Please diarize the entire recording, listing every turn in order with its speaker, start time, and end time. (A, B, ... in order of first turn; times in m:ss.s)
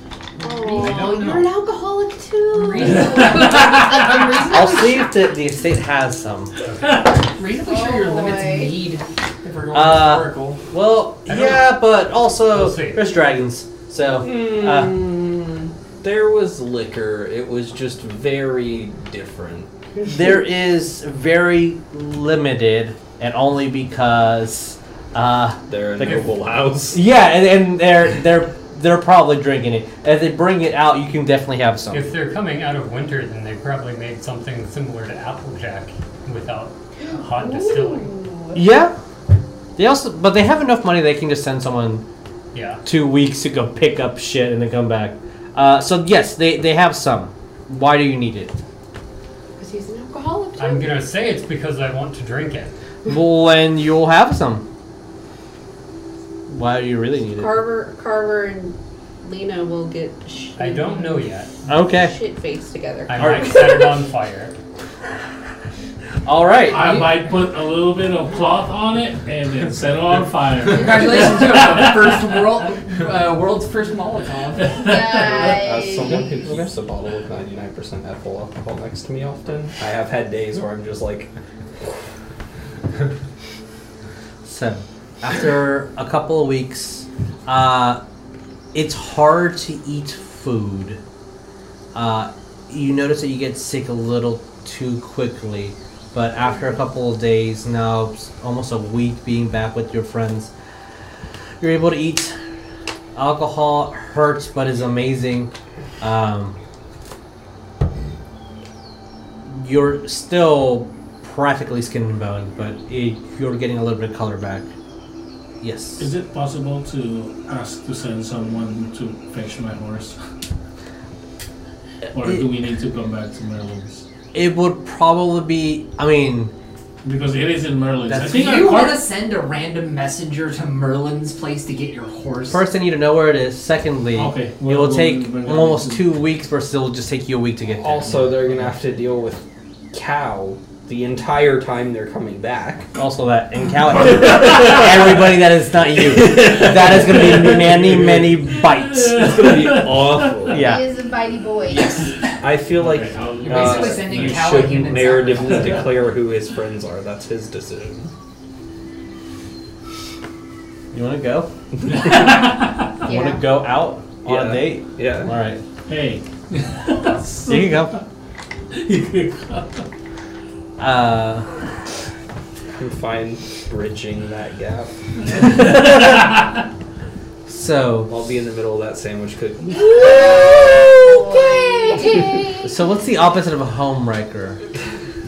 0:00.4-0:01.5 A
0:00.4-0:04.9 B
0:02.5-0:05.0 A
0:03.1-0:03.7 C
0:04.5-0:06.6 D
0:06.6-0:07.1 E
0:06.8-0:07.2 C
0:07.2-0:10.6 A
0:07.6-0:08.8 F
0:09.7-0:15.0 D
0:12.5-0:13.1 E
0:14.2-0:19.7 G
0:20.0-0:26.3 D
0:25.7-0:27.0 G
0:26.9-0:32.1 D
0:31.9-0:38.1 E
0:37.1-0:38.6 B
0:38.5-0:38.9 D
0:39.8-0:42.0 D
0:42.5-0:42.8 E
0:42.8-0:48.5 D
0:49.6-0:51.0 B
0:50.6-0:52.7 E
0:53.0-0:54.6 D
0:56.5-0:57.6 D
0:57.2-1:01.3 B
1:00.6-1:01.5 E
1:01.7-1:02.2 D
1:01.8-1:04.0 B
1:03.1-1:04.5 E
1:03.1-1:03.7 D
1:06.2-1:06.9 D
1:06.7-1:12.4 C
1:06.8-1:07.1 A
1:10.7-1:15.0 A
1:14.6-1:15.4 C
1:14.8-1:16.2 F
1:15.2-1:21.3 G
1:24.4-1:28.0 D
1:28.7-1:31.0 D
1:31.9-1:40.5 D
1:41.6-1:42.3 D
1:43.1-1:46.6 D
1:49.5-1:54.7 D
1:55.6-1:56.1 D
1:56.0-2:00.2 C
2:02.1-2:04.0 C
2:04.3-2:06.5 D
2:07.0-2:09.0 C
2:08.1-2:08.6 D
2:08.2-2:12.6 A
2:12.5-2:18.3 D
2:14.1-2:16.0 C
2:17.7-2:22.9 G
2:18.0-2:18.7 C
2:22.9-2:29.4 D
2:26.0-2:28.4 G
2:27.2-2:30.5 C
2:29.1-2:30.7 G
2:30.4-2:30.9 D
2:30.6-2:32.1 F
2:32.4-2:38.1 G
2:32.7-2:36.0 C
2:33.4-2:35.8 A
2:40.9-2:42.5 D
2:41.8-2:43.0 C
2:43.0-2:45.6 D
2:43.0-2:43.4 F
2:44.2-2:45.3 G
2:45.8-2:48.0 C
2:47.4-2:48.0 D
2:48.7-2:49.8 C
2:50.8-2:51.6 D
2:52.8-2:55.3 G
2:55.4-2:56.6 C
2:55.5-2:56.3 D
2:57.5-2:58.1 D
2:58.1-3:00.2 G
2:59.8-3:02.6 F
3:00.0-3:00.9 D
3:00.2-3:02.5 B
3:02.5-3:04.6 D